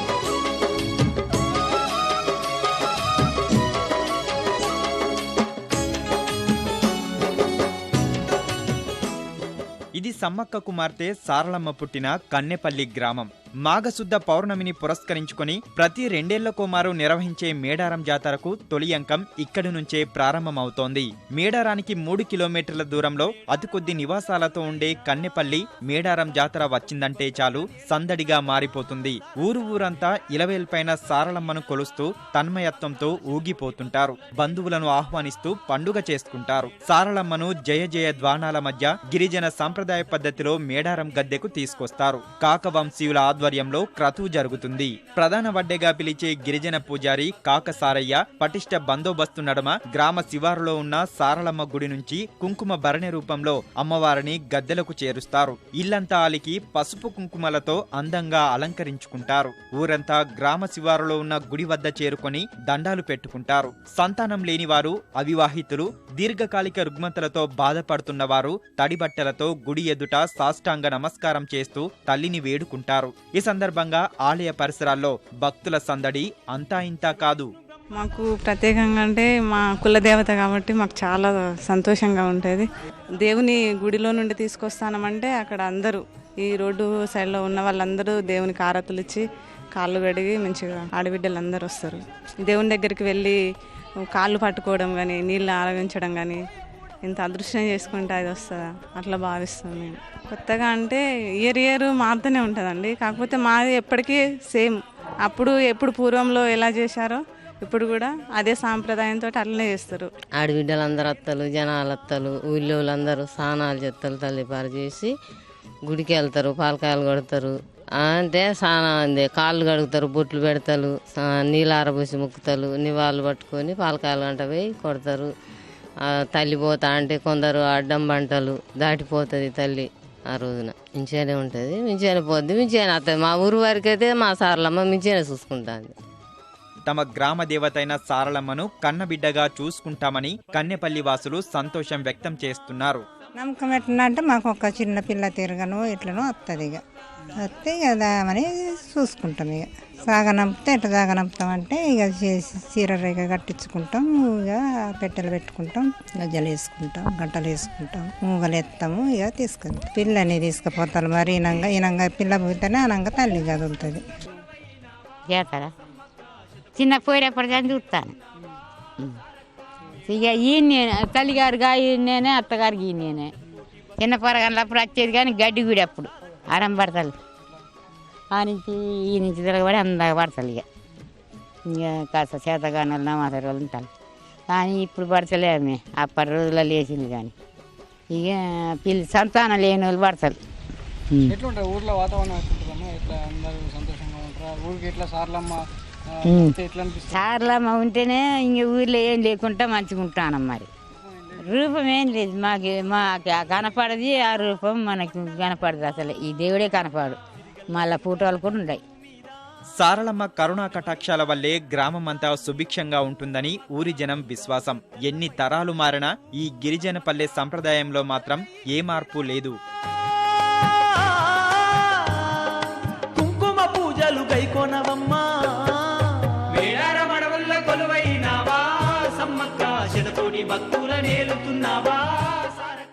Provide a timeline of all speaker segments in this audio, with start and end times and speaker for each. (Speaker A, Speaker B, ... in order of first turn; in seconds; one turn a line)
Speaker A: 10.0-77.5
Speaker B: 78.0-89.2
Speaker B: 89.8-93.4
Speaker B: 94.1-96.4
Speaker B: 97.0-110.1
Speaker C: 110.4-115.1
Speaker C: 115.9-125.3
Speaker C: 126.1-135.9
Speaker A: 136.9-143.0
Speaker D: 143.4-146.8
Speaker D: 147.4-164.0
Speaker E: 165.3-165.7
Speaker E: 166.8-168.2
Speaker E: 170.1-173.3
Speaker E: 174.0-177.1
Speaker E: 178.3-180.6
Speaker E: 181.7-183.9
Speaker E: 184.5-187.3
Speaker E: 188.1-190.4
Speaker F: 191.3-197.3
Speaker E: 196.2-196.6
Speaker E: 197.1-200.7
Speaker F: 201.1-201.4
Speaker E: 201.4-207.2
Speaker E: 207.7-208.8
Speaker A: 209.8-219.6
Speaker G: 220.5-222.5
Speaker G: 223.1-232.8